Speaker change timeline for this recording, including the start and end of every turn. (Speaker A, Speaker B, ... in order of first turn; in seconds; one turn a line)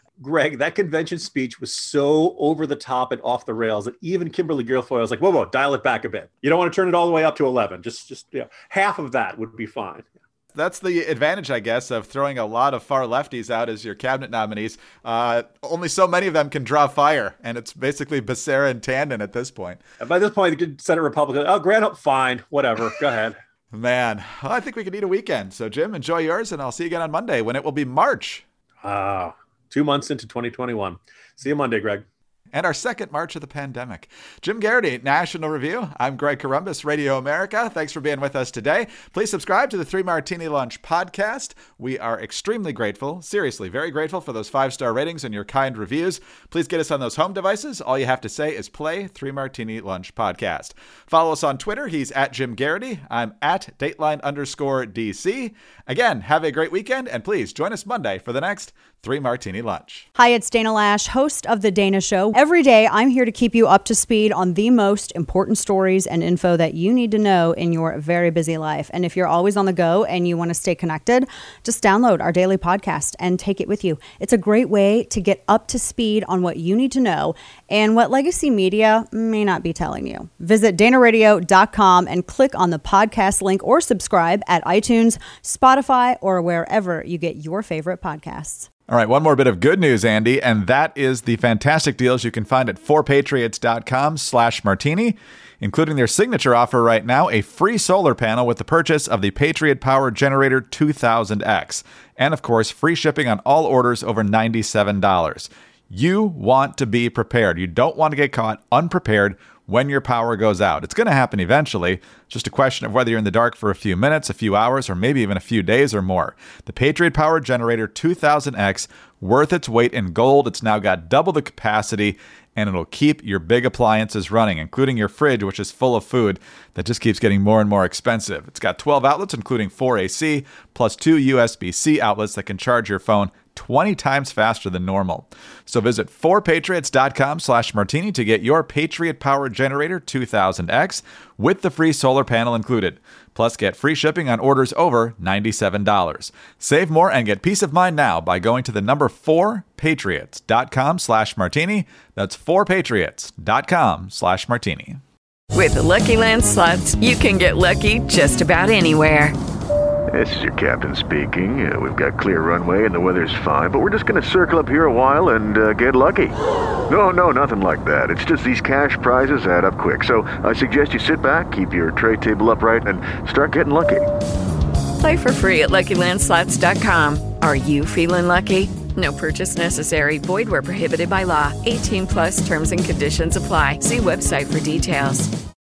Speaker A: 0.2-10.1
Speaker B: 10.5-19.8
Speaker A: 20.0-23.4
Speaker B: 23.7-28.4
Speaker A: 28.8-32.0
Speaker B: 32.5-60.0
Speaker C: 60.1-88.7
Speaker B: 88.9-155.0
Speaker D: 155.5-159.3
Speaker E: 160.1-166.3
Speaker E: 166.9-174.0
Speaker D: 175.0-185.3